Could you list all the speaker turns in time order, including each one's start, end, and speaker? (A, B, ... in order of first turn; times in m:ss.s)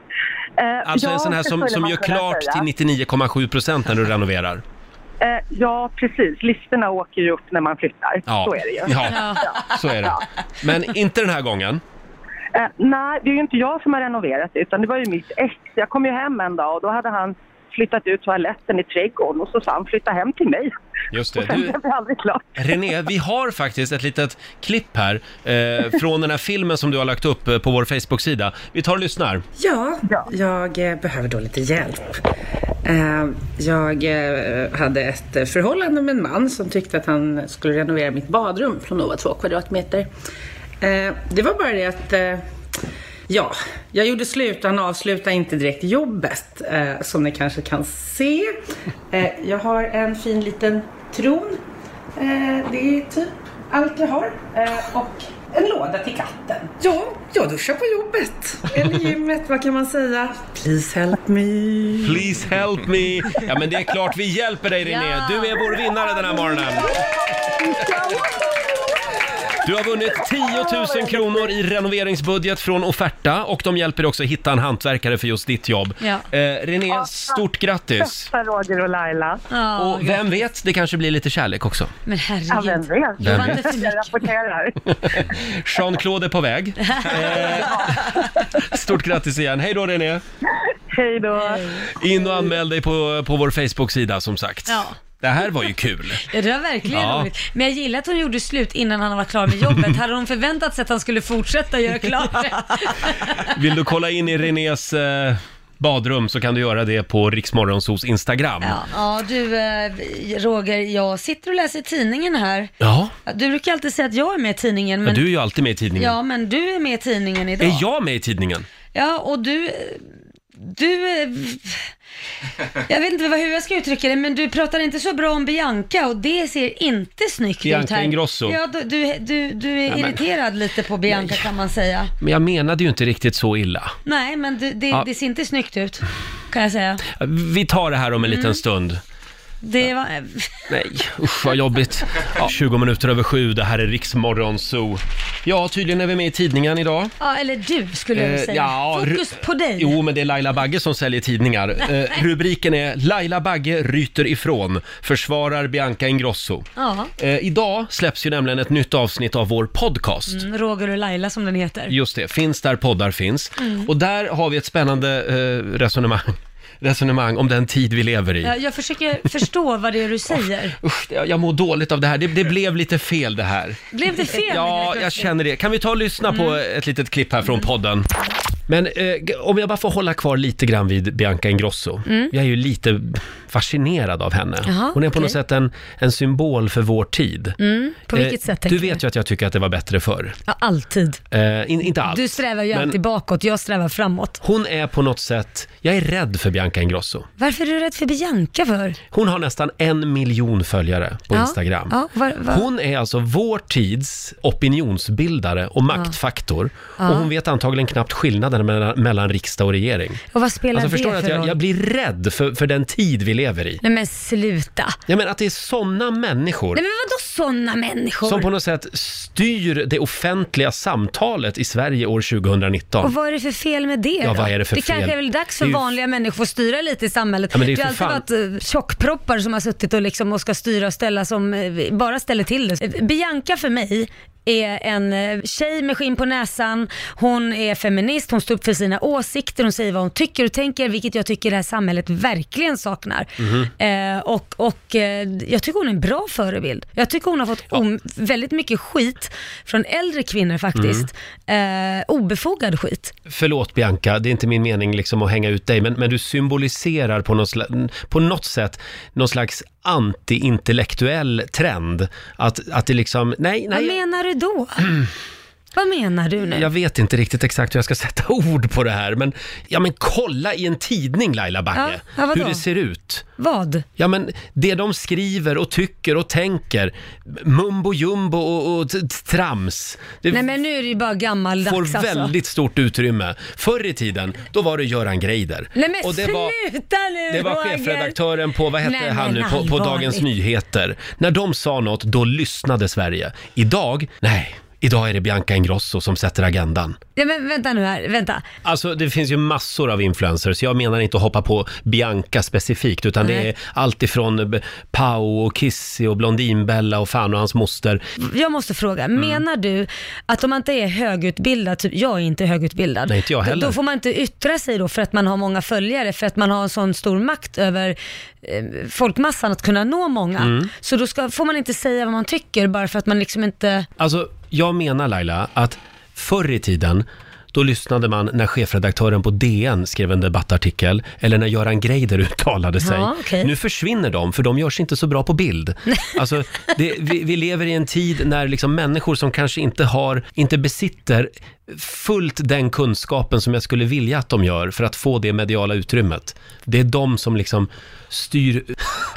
0:00.6-0:02.6 A
0:00.9-0:04.6 B
0:05.2-0:09.6 A
0:08.3-0:11.8 B
0:09.1-0:09.4 C
0:12.6-0:20.7 A
0:21.1-0:21.8 B
0:21.4-0:22.7 A
0:22.6-0:29.4 B
0:29.6-0:32.1 D
0:32.8-0:40.1 D
0:40.8-0:42.4 D
0:43.3-0:48.6 D
0:49.1-0:51.6 D
0:52.2-1:02.3 D
1:02.0-1:07.0 B
1:04.8-1:06.4 C
1:07.6-1:07.9 D
1:09.6-1:18.3 B
1:18.3-1:19.4 A
1:19.5-1:20.2 C
1:19.8-1:21.9 B
1:22.1-1:24.3 C
1:22.5-1:24.8 A
1:23.2-1:23.7 B
1:25.2-1:30.2 B
1:26.9-1:27.2 C
1:30.9-1:31.6 A
1:31.4-1:31.9 C
1:31.9-1:36.2 B
1:34.7-1:34.9 C
1:36.2-1:43.5 C
1:36.9-1:37.3 B
1:43.4-1:48.8 B
1:48.6-1:52.7 C
1:52.8-1:53.1 B
1:53.2-1:55.3 C
1:55.0-1:56.1 B
1:56.0-1:57.8 C
1:57.6-1:58.6 B
1:58.9-2:00.0 C
2:00.6-2:01.8 C
2:02.9-2:12.1 C
2:07.6-2:08.6 B
2:09.9-2:10.2 B
2:11.1-2:11.4 B
2:12.2-2:13.9 B
2:14.1-2:17.0 C
2:17.1-2:19.0 B
2:18.2-2:18.6 C
2:19.6-2:20.6 C
2:20.7-2:27.1 B
2:27.2-2:30.0 C
2:28.1-2:36.7 B
2:36.8-2:37.1 C
2:37.2-2:40.4 B
2:40.3-2:41.9 C
2:41.9-2:48.5 B
2:43.6-2:43.9 C
2:48.4-2:50.8 C
2:50.8-2:58.1 B
2:53.9-2:55.3 C
2:56.3-2:56.6 C
2:58.7-3:07.6 B
3:02.1-3:02.3 C
3:04.6-3:05.4 C
3:07.6-3:09.0 C
3:08.1-3:10.4 B
3:10.5-3:11.2 C
3:11.3-3:13.0 B
3:12.0-3:14.4 C
3:14.4-3:17.3 B
3:17.4-3:19.0 C
3:19.1-3:21.9 B
3:21.3-3:22.6 C
3:22.5-3:30.2 B
3:27.0-3:27.3 C
3:30.3-3:31.6 C
3:30.7-3:33.8 B
3:33.8-3:35.0 C
3:35.1-3:36.8 B
3:36.7-3:38.5 C
3:38.2-3:43.1 B
3:43.0-4:13.1 C
3:44.2-3:45.9 B
3:47.5-3:48.2 B
4:03.4-4:03.7 B
4:10.7-4:11.1 B
4:13.3-4:24.0 B
4:23.7-4:25.0 C
4:25.7-4:26.7 C
4:26.5-4:33.2 B
4:31.7-4:32.6 C
4:33.4-4:33.8 C
4:34.0-4:40.5 B
4:40.3-4:42.3 C
4:41.6-4:46.6 B
4:45.7-4:48.2 C
4:47.3-4:57.0 B
4:48.8-4:50.2 C
4:57.2-4:58.4 C
4:58.6-5:08.0 B
5:03.2-5:03.5 C
5:08.2-5:23.9 C
5:09.2-5:09.4 B
5:13.1-5:13.8 B
5:20.4-5:20.7 B
5:24.0-5:48.8 B
5:32.8-5:33.5 C